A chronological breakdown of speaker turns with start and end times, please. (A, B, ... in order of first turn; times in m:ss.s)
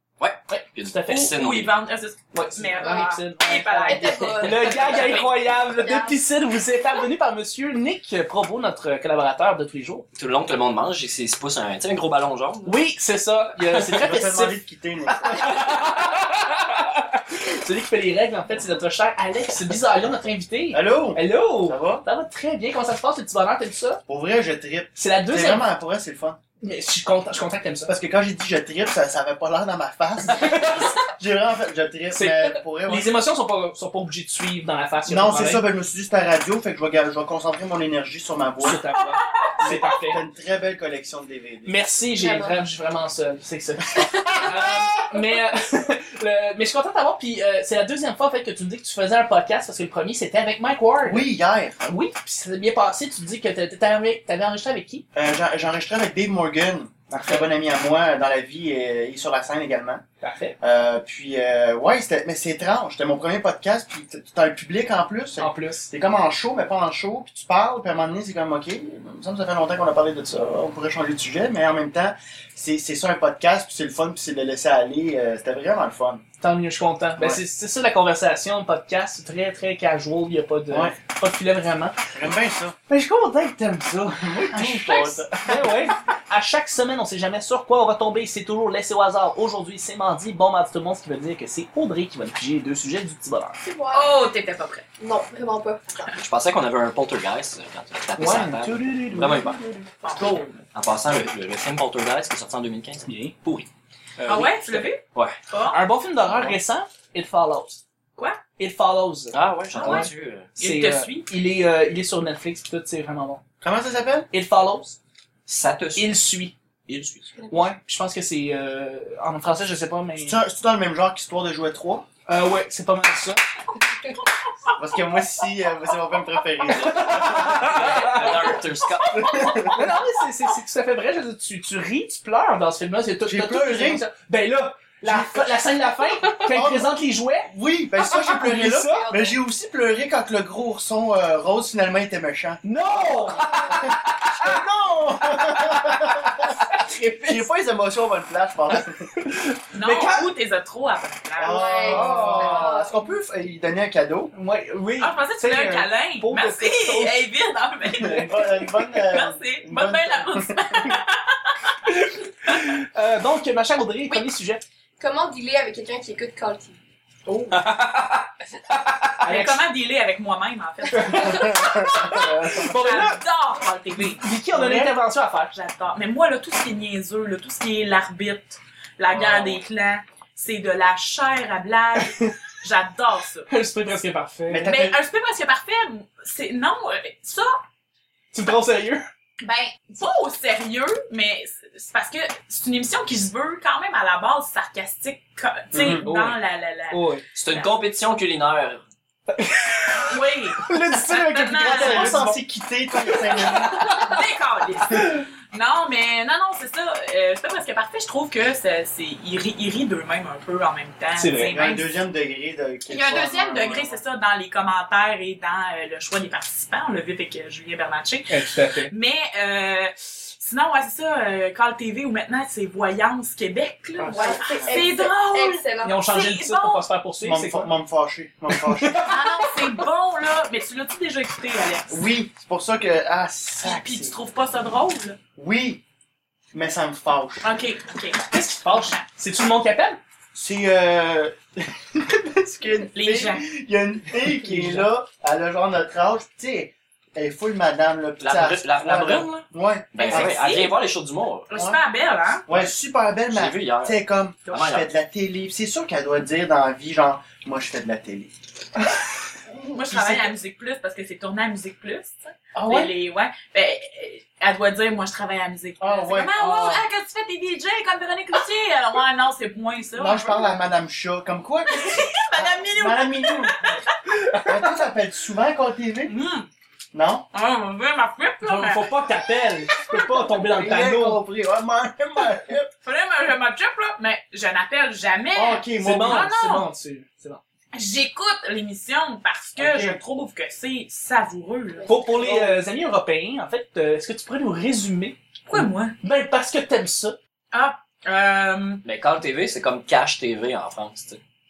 0:00.2-0:01.7 A
0:00.5-0:01.3 B
0:01.1-0:05.3 C
0:02.3-0:10.0 B
0:02.8-0:03.1 D
0:03.8-0:06.2 D
0:10.2-0:12.8 A
0:12.6-0:14.6 B
0:13.9-0:15.8 E
0:15.2-0:24.0 B
0:20.7-0:22.0 E
0:24.1-0:26.4 E
0:25.0-0:25.6 B
0:26.6-0:27.9 B
0:27.9-0:33.1 E
0:30.3-0:31.0 B
0:32.1-0:35.6 B
0:35.0-0:38.8 E
0:38.6-0:40.2 B
0:39.6-0:41.8 E
0:41.6-0:51.3 B
0:42.2-0:42.6 D
0:44.2-0:44.6 E
0:51.0-0:51.8 E
0:51.8-0:55.0 B
0:55.1-1:00.0 E
0:57.1-0:57.4 B
1:00.2-1:00.6 B
1:00.6-1:16.2 E
1:05.4-1:05.9 B
1:16.4-1:22.0 B
1:17.2-1:17.4 E
1:20.7-1:21.0 E
1:22.1-1:22.8 E
1:22.9-1:33.6 B
1:24.1-1:25.9 E
1:33.6-1:34.2 D
1:33.9-1:34.9 C
1:35.0-1:36.1 D
1:36.2-1:39.7 A
1:38.2-1:39.8 B
1:40.0-1:40.6 C
1:40.7-1:43.7 A
1:43.0-1:43.4 B
1:44.2-1:44.9 B
1:44.2-1:45.8 C
1:45.7-1:47.8 B
1:48.2-1:48.4 C
1:48.6-1:53.4 B
1:49.3-1:50.5 A
1:49.7-1:51.3 C
1:53.6-1:54.3 E
1:54.3-1:55.0 B
1:55.4-1:56.1 A
1:56.0-1:56.5 B
1:56.9-1:57.4 A
1:57.5-2:00.4 B
2:00.2-2:02.0 E
2:02.3-2:03.4 B
2:04.8-2:08.1 E
2:06.8-2:08.4 B
2:07.0-2:09.7 A
2:09.0-2:09.9 E
2:09.7-2:19.1 B
2:13.2-2:14.0 E
2:15.0-2:15.6 E
2:16.4-2:16.9 E
2:17.5-2:29.1 E
2:18.8-2:19.4 D
2:22.6-2:24.6 B
2:25.2-2:27.4 B
2:29.1-2:30.3 B
2:29.7-2:31.8 C
2:31.4-2:34.3 E
2:31.4-2:32.9 D
2:31.8-2:32.8 B
2:34.3-2:37.3 B
2:35.0-2:38.3 C
2:37.8-2:38.6 B
2:38.0-2:41.0 E
2:39.0-2:41.8 C
2:41.9-2:44.6 B
2:45.0-2:46.8 D
2:47.2-2:47.6 C
2:47.5-2:49.1 A
2:49.2-2:54.2 C
2:49.2-2:49.6 B
2:50.9-2:53.2 B
2:51.1-2:52.7 E
2:54.1-2:55.5 B
2:54.5-2:54.9 E
2:55.5-3:03.5 C
2:59.1-2:59.6 B
3:03.5-3:04.8 B
3:04.5-3:05.0 E
3:04.7-3:07.6 C
3:08.3-3:09.0 B
3:09.4-3:17.7 C
3:15.7-3:16.0 E
3:16.0-3:17.2 B
3:17.4-3:18.8 A
3:19.3-3:22.4 B
3:20.1-3:22.3 C
3:20.9-3:24.1 E
3:23.1-3:24.1 B
3:23.6-3:32.0 C
3:31.2-3:31.6 B
3:31.5-3:34.0 E
3:32.9-3:46.8 C
3:38.3-3:38.9 B
3:44.0-3:44.8 E
3:44.0-3:46.1 D
3:45.8-3:47.7 B
3:47.2-3:49.2 E
3:48.5-3:49.5 B
3:49.0-3:52.0 C
3:51.9-3:54.1 E
3:53.6-3:55.2 C
3:55.4-3:55.8 E
3:56.5-3:57.5 E
3:57.4-3:59.0 C
3:58.3-4:00.0 B
4:00.3-4:10.4 E
4:02.9-4:03.4 C
4:04.3-4:04.9 B
4:08.2-4:11.5 A
4:10.0-4:10.7 C
4:11.5-4:12.4 C
4:11.5-4:11.8 E
4:12.5-4:18.5 E
4:13.3-4:14.8 A
4:19.5-4:20.3 E
4:19.7-4:30.5 C
4:22.5-4:22.9 E
4:25.8-4:26.8 E
4:30.0-4:33.8 E
4:31.6-4:34.0 C
4:34.2-4:34.5 B
4:34.4-4:36.1 E
4:36.1-4:36.5 C
4:36.9-4:37.2 E
4:37.3-4:38.9 C
4:38.4-4:41.2 B
4:40.3-4:42.7 E
4:42.8-4:46.7 C
4:45.3-4:46.3 E
4:45.8-4:47.4 B
4:47.7-4:52.4 C
4:49.6-4:50.0 E
4:51.8-4:57.2 B
4:52.2-4:52.5 E
4:55.5-4:56.0 C
4:57.5-4:58.8 C
4:58.8-5:01.2 A